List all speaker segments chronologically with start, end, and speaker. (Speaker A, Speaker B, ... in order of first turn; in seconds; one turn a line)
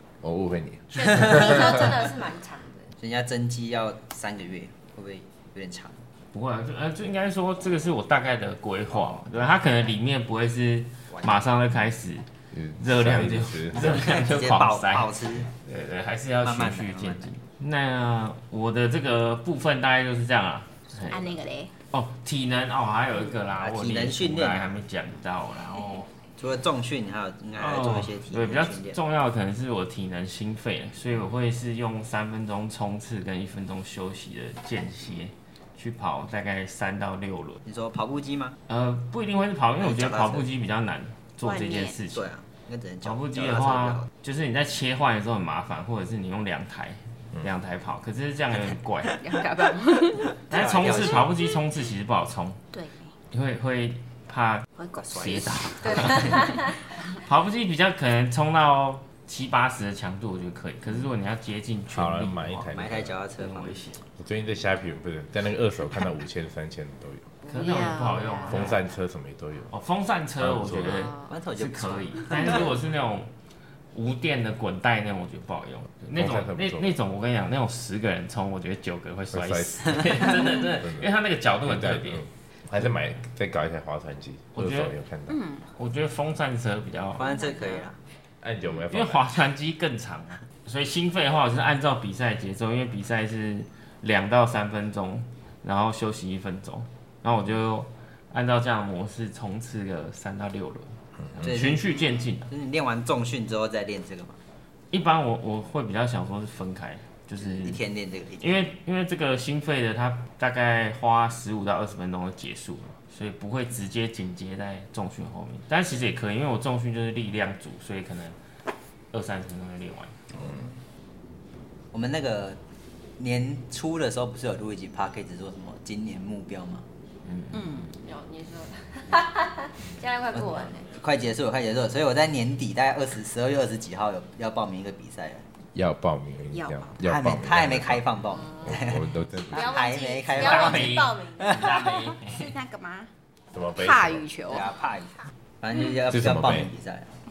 Speaker A: 0.2-1.8
Speaker B: 0.9-2.9
Speaker C: 3.0-6.0
Speaker D: 6.3-12.3
Speaker C: 11.1-11.5
Speaker A: 12.5-14.0
Speaker D: 12.8-21.3
Speaker C: 13.8-15.5
Speaker C: 16.4-17.3
Speaker E: 21.0-21.7
Speaker D: 21.9-26.1
Speaker C: 23.6-24.7
Speaker C: 26.4-29.0
Speaker D: 27.6-37.6
Speaker C: 37.6-38.6
Speaker D: 38.7-42.3
Speaker C: 39.8-40.5
Speaker E: 41.4-41.9
Speaker C: 42.1-44.1
Speaker D: 43.0-49.2
Speaker E: 49.1-50.4
Speaker C: 50.4-51.3
Speaker D: 50.5-52.6
Speaker E: 52.7-53.1
Speaker D: 53.3-56.6
Speaker E: 54.7-57.2
Speaker C: 55.0-56.0
Speaker B: 56.1-56.7
Speaker D: 57.2-62.7
Speaker A: 61.9-63.2
Speaker C: 62.7-63.9
Speaker D: 63.4-64.0
Speaker A: 64.2-67.3
Speaker E: 67.5-68.6
Speaker D: 67.5-68.8
Speaker A: 68.5-69.7
Speaker D: 69.7-73.3
Speaker A: 70.4-71.1
Speaker C: 71.2-72.7
Speaker D: 73.9-82.2
Speaker A: 76.1-76.9
Speaker A: 79.3-81.1
Speaker A: 81.6-85.4
Speaker D: 84.5-84.9
Speaker E: 85.3-85.7
Speaker D: 85.7-87.2
Speaker C: 87.2-88.0
Speaker E: 87.2-87.7
Speaker A: 88.4-89.2
Speaker D: 88.9-102.5
Speaker C: 101.4-104.4
Speaker D: 104.9-107.8
Speaker C: 107.4-108.7
Speaker D: 108.4-118.4
Speaker D: 119.1-120.2
Speaker C: 120.3-120.8
Speaker C: 121.9-122.6
Speaker C: 123.2-126.8
Speaker D: 127.2-127.6
Speaker E: 127.5-128.0
Speaker B: 128.0-130.9
Speaker C: 130.3-135.5
Speaker A: 135.7-138.0
Speaker E: 136.5-136.9
Speaker C: 137.0-141.9
Speaker B: 138.4-138.8
Speaker A: 138.6-139.7
Speaker B: 139.5-141.7
Speaker D: 140.3-142.5
Speaker E: 142.2-143.1
Speaker A: 143.5-144.2
Speaker E: 143.8-144.7
Speaker C: 144.5-147.2
Speaker A: 146.1-146.7